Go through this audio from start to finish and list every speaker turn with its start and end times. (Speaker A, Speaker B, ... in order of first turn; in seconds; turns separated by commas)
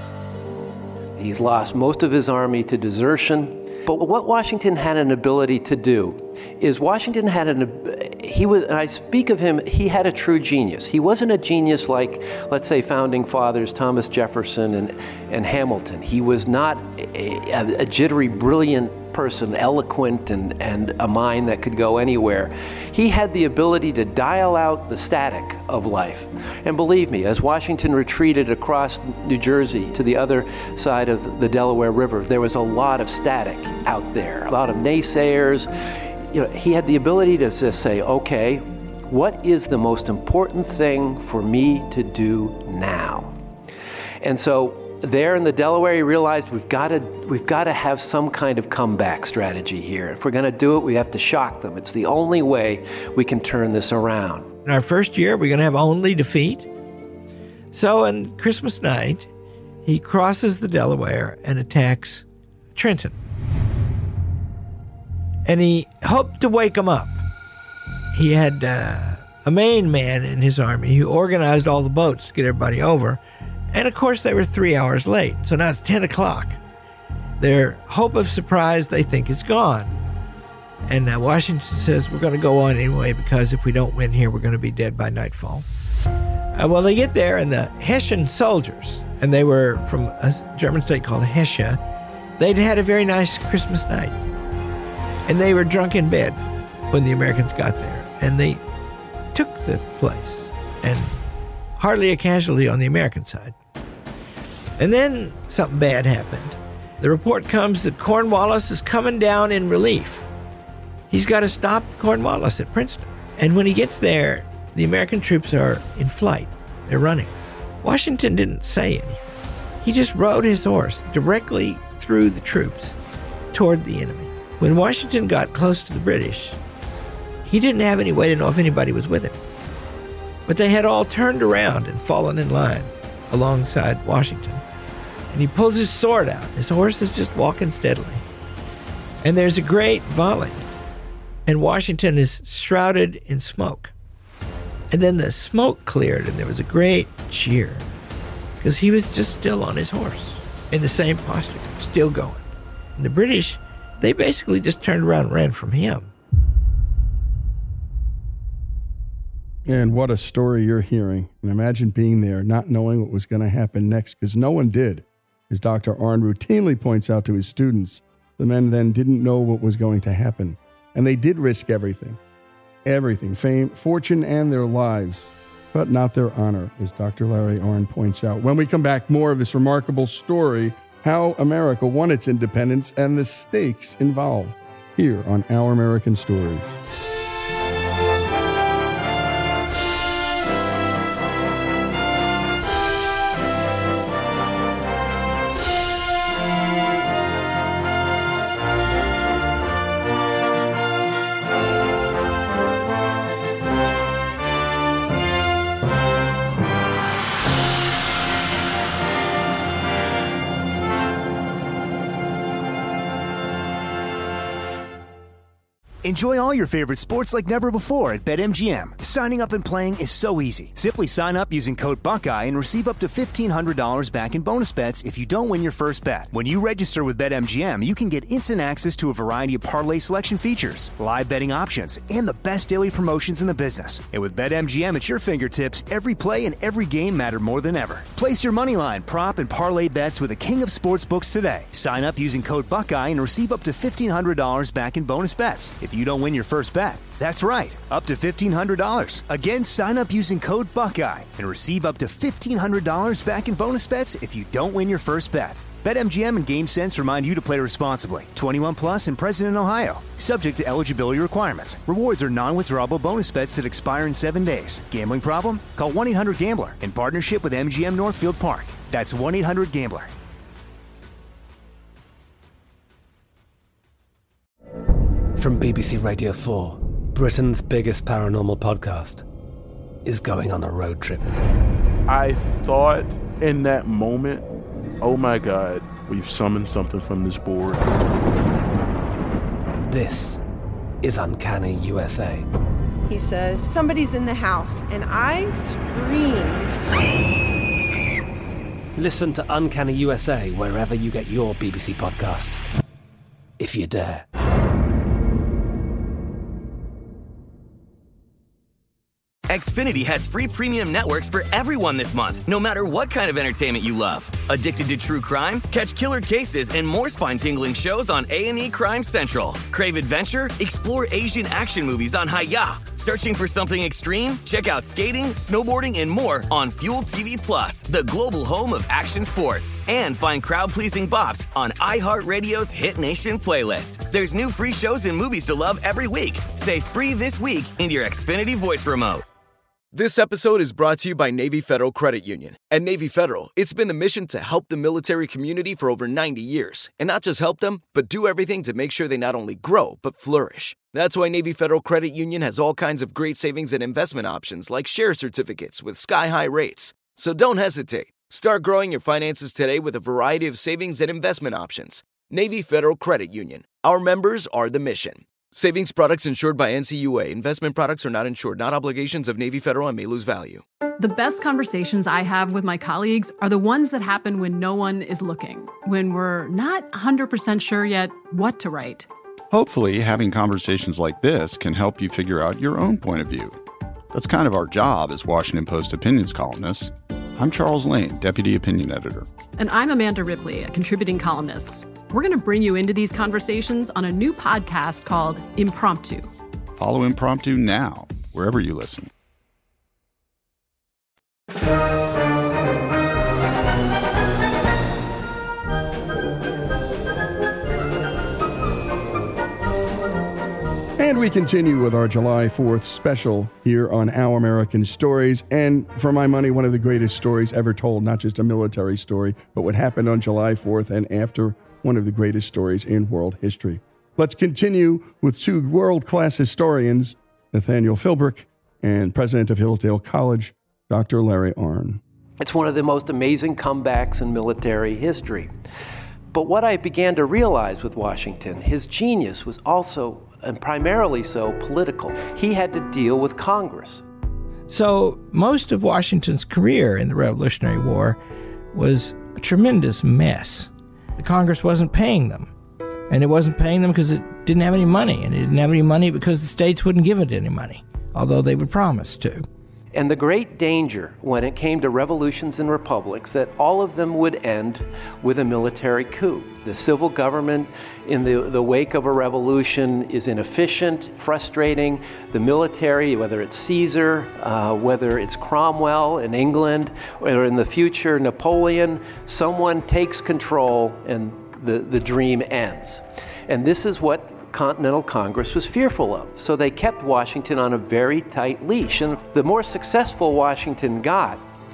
Speaker A: 1.2-35.7, Speaker A: 36.3-43.3, Speaker A: 44.2-54.5, Speaker B: 54.6-56.7, Speaker B: 57.7-59.3, Speaker B: 59.8-63.2, Speaker B: 65.5-67.2, Speaker B: 68.1-73.2, Speaker B: 73.7-76.6, Speaker B: 77.4-80.0, Speaker B: 80.9-85.7, Speaker B: 86.5-91.8, Speaker B: 92.4-94.2, Speaker B: 95.3-96.4, Speaker B: 96.9-98.6, Speaker B: 99.3-101.2, Speaker B: 101.8-103.5, Speaker B: 104.8-110.2, Speaker B: 111.1-119.2, Speaker B: 119.8-122.9, Speaker B: 123.5-126.6, Speaker B: 127.5-129.4, Speaker B: 130.5-134.6, Speaker B: 135.3-138.2, Speaker B: 139.2-140.7, Speaker B: 141.4-143.9, Speaker B: 144.9-147.8, Speaker B: 148.6-156.1, Speaker C: 159.7-172.2, Speaker C: 172.8-186.8, Speaker D: 216.0-270.1, Speaker E: 275.4-279.2, Speaker E: 280.0-281.2, Speaker F: 282.1-284.4, Speaker F: 285.0-287.9, Speaker E: 289.9-290.4, Speaker E: 291.0-292.4, Speaker G: 293.1-296.8, Speaker E: 299.0-302.7, Speaker E: 303.6-304.2, Speaker H: 309.5-339.2, Speaker I: 339.9-370.6, Speaker J: 371.0-379.1, Speaker K: 379.5-383.6, Speaker K: 384.1-389.3, Speaker J: 389.6-396.3, Speaker K: 396.8-399.1, Speaker C: 411.0-432.0, Speaker A: 432.4-435.5, Speaker A: 436.3-444.0, Speaker B: 444.7-448.2, Speaker B: 448.7-452.5, Speaker B: 453.1-459.4, Speaker A: 459.9-491.4